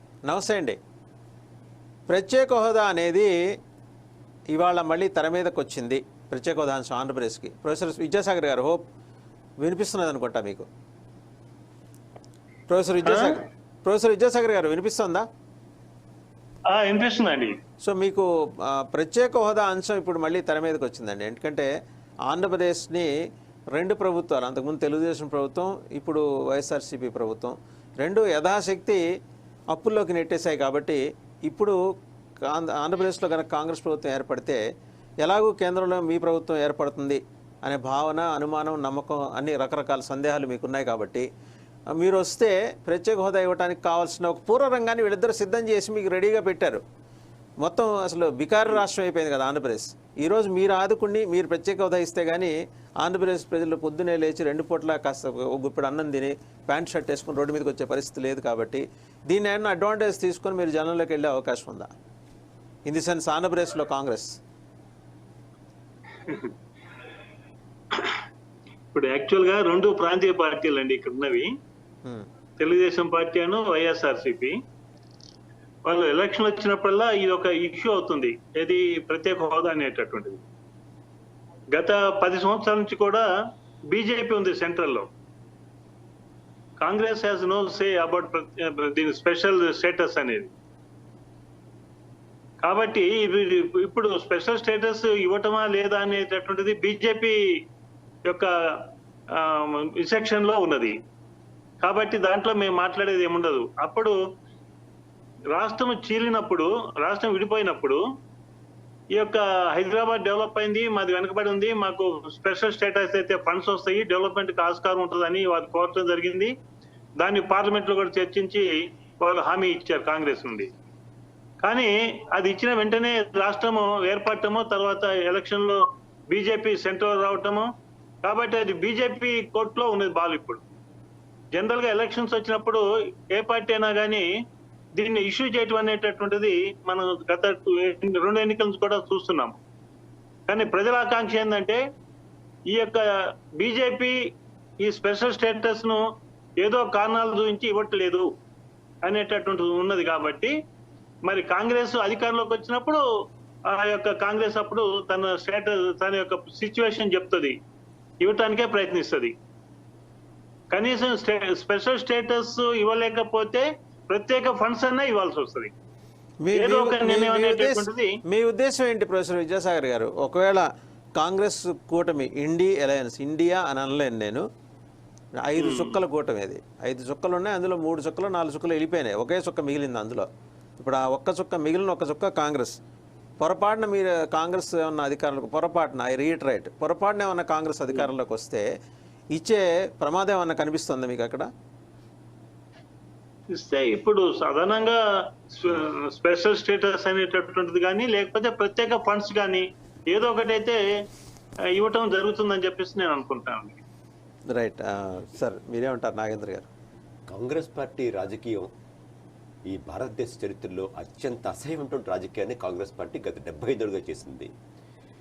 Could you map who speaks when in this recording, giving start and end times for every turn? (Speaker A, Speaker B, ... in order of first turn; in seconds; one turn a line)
Speaker A: 0.3-0.8
Speaker A: 2.1-3.3
Speaker A: 4.5-8.8
Speaker A: 9.6-10.7
Speaker A: 12.7-15.3
Speaker B: 13.0-13.4
Speaker B: 16.7-17.6
Speaker A: 17.8-21.7
Speaker A: 22.3-23.1
Speaker A: 23.7-29.0
Speaker A: 29.7-31.8
Speaker A: 32.5-34.6
Speaker A: 35.2-41.3
Speaker A: 42.0-46.8
Speaker A: 47.6-61.9
Speaker A: 62.9-64.4
Speaker B: 66.2-66.5
Speaker B: 67.9-68.2
Speaker B: 68.9-71.5
Speaker B: 72.6-74.6
Speaker B: 75.8-80.4
Speaker B: 81.7-83.3
Speaker B: 83.9-85.1
Speaker B: 86.8-90.5
Speaker B: 92.6-97.4
Speaker B: 98.3-100.9
Speaker B: 101.8-104.2
Speaker B: 105.5-108.0
Speaker B: 109.1-116.5
Speaker B: 117.2-120.7
Speaker B: 121.6-127.7
Speaker B: 128.2-130.6
Speaker B: 131.5-134.3
Speaker B: 135.0-139.6
Speaker B: 140.5-141.8
Speaker B: 142.7-144.2
Speaker B: 144.8-146.0
Speaker B: 146.6-148.3
Speaker B: 149.0-150.6
Speaker B: 151.2-153.0
Speaker B: 153.7-157.6
Speaker B: 158.2-159.3
Speaker B: 160.7-165.7
Speaker A: 166.4-174.5
Speaker B: 166.5-168.1
Speaker A: 175.4-180.3
Speaker B: 175.6-176.0
Speaker A: 180.8-182.8
Speaker A: 183.4-188.7
Speaker A: 189.3-191.5
Speaker B: 193.6-195.0
Speaker B: 195.5-200.8
Speaker B: 201.7-203.8
Speaker A: 204.5-206.7
Speaker C: 207.3-208.7
Speaker C: 209.7-214.5